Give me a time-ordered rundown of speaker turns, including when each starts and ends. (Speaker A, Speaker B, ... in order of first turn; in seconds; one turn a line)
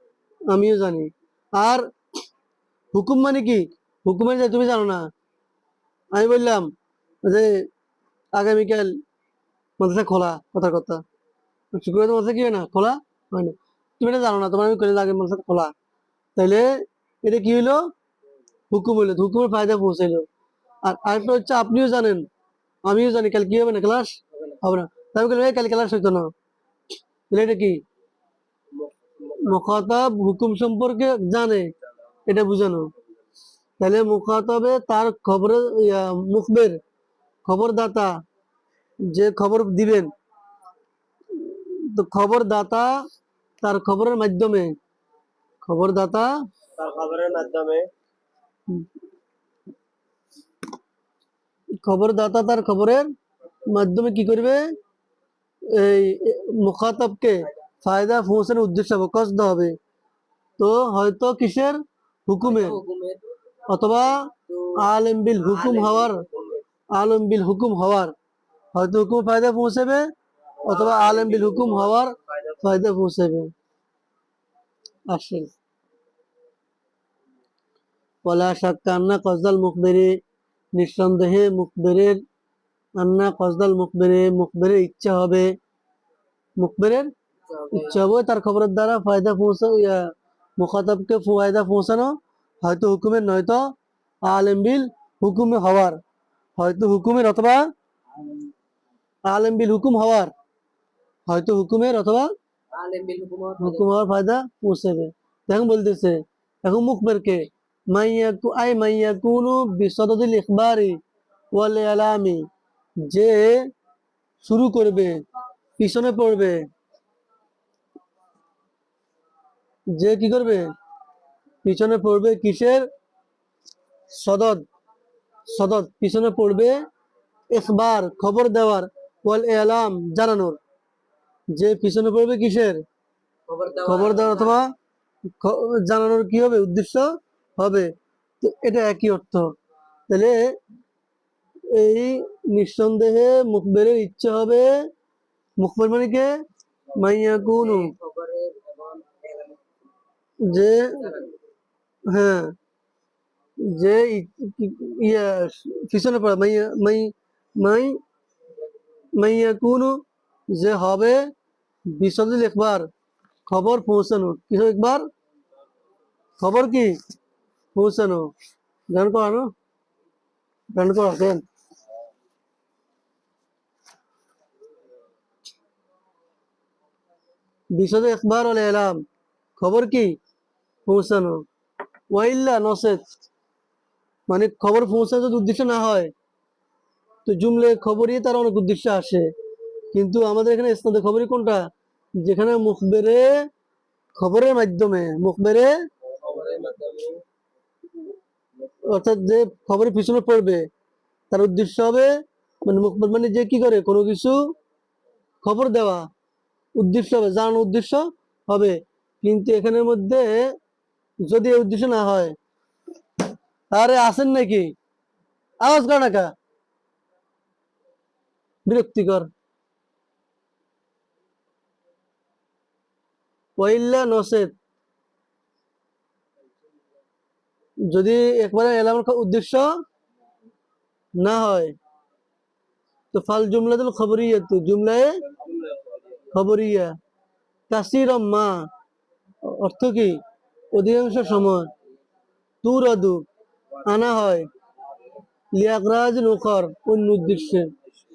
Speaker A: 0.5-1.9
Speaker A: 2.9-5.1
Speaker A: 6.1-6.7
Speaker A: 7.2-7.7
Speaker A: 8.3-9.0
Speaker A: 9.8-11.0
Speaker A: 11.7-15.7
Speaker A: 16.4-17.9
Speaker A: 18.7-20.3
Speaker A: 20.8-22.2
Speaker A: 22.9-26.3
Speaker A: 27.3-27.8
Speaker B: 28.7-29.7
Speaker A: 29.4-31.7
Speaker A: 32.3-32.9
Speaker A: 33.8-36.8
Speaker A: 37.5-38.1
Speaker A: 39.0-40.1
Speaker A: 41.3-43.0
Speaker A: 43.6-44.7
Speaker A: 45.6-46.3
Speaker B: 46.8-47.9
Speaker A: 51.8-53.1
Speaker A: 53.7-54.7
Speaker A: 55.7-59.7
Speaker A: 60.6-62.8
Speaker B: 62.4-63.2
Speaker A: 63.7-66.2
Speaker B: 64.5-64.8
Speaker B: 65.4-66.6
Speaker A: 66.9-68.1
Speaker A: 68.7-70.1
Speaker B: 70.6-72.6
Speaker A: 70.6-73.5
Speaker A: 75.1-75.5
Speaker A: 78.2-80.2
Speaker A: 80.7-82.2
Speaker A: 83.0-85.5
Speaker A: 86.6-87.1
Speaker B: 87.5-88.0
Speaker A: 87.7-93.7
Speaker A: 94.2-96.0
Speaker A: 96.6-97.7
Speaker A: 99.3-100.3
Speaker A: 101.3-102.3
Speaker B: 102.7-103.9
Speaker A: 103.6-111.0
Speaker A: 111.5-112.5
Speaker A: 113.0-113.7
Speaker A: 114.4-115.2
Speaker A: 115.8-116.6
Speaker A: 119.9-120.7
Speaker A: 121.6-122.9
Speaker A: 124.1-124.6
Speaker A: 125.5-126.8
Speaker A: 127.5-130.6
Speaker A: 131.5-132.8
Speaker B: 133.5-134.6
Speaker A: 133.8-134.7
Speaker A: 135.4-139.5
Speaker A: 140.1-140.5
Speaker A: 141.7-144.8
Speaker A: 145.6-146.3
Speaker A: 147.0-147.9
Speaker B: 147.5-149.7
Speaker A: 150.4-151.0
Speaker B: 150.5-151.4
Speaker A: 152.1-152.5
Speaker A: 153.6-158.0
Speaker A: 159.2-160.0
Speaker A: 160.5-161.3
Speaker A: 161.9-162.9
Speaker A: 163.5-165.1
Speaker A: 166.4-166.9
Speaker A: 167.7-168.3
Speaker A: 168.9-169.5
Speaker A: 170.7-171.4
Speaker A: 177.7-179.0
Speaker A: 179.6-180.1
Speaker A: 180.8-181.4
Speaker A: 182.1-183.1
Speaker A: 184.3-186.1
Speaker A: 187.2-189.3
Speaker A: 189.9-191.6
Speaker A: 192.2-193.3
Speaker A: 194.2-195.7
Speaker B: 196.1-197.2
Speaker A: 198.9-200.6
Speaker A: 201.3-202.1
Speaker A: 202.6-204.5
Speaker A: 205.4-206.1
Speaker A: 206.8-210.5
Speaker A: 211.2-212.3
Speaker A: 213.7-214.7
Speaker A: 215.6-216.3
Speaker A: 218.7-219.3
Speaker A: 223.6-224.5
Speaker A: 227.9-229.8
Speaker A: 231.2-231.7
Speaker A: 233.1-235.2
Speaker B: 235.3-236.2
Speaker A: 236.3-236.9
Speaker A: 237.7-238.6
Speaker A: 239.4-240.2
Speaker A: 240.7-241.7
Speaker A: 242.6-243.2
Speaker A: 243.8-244.5
Speaker A: 245.5-247.7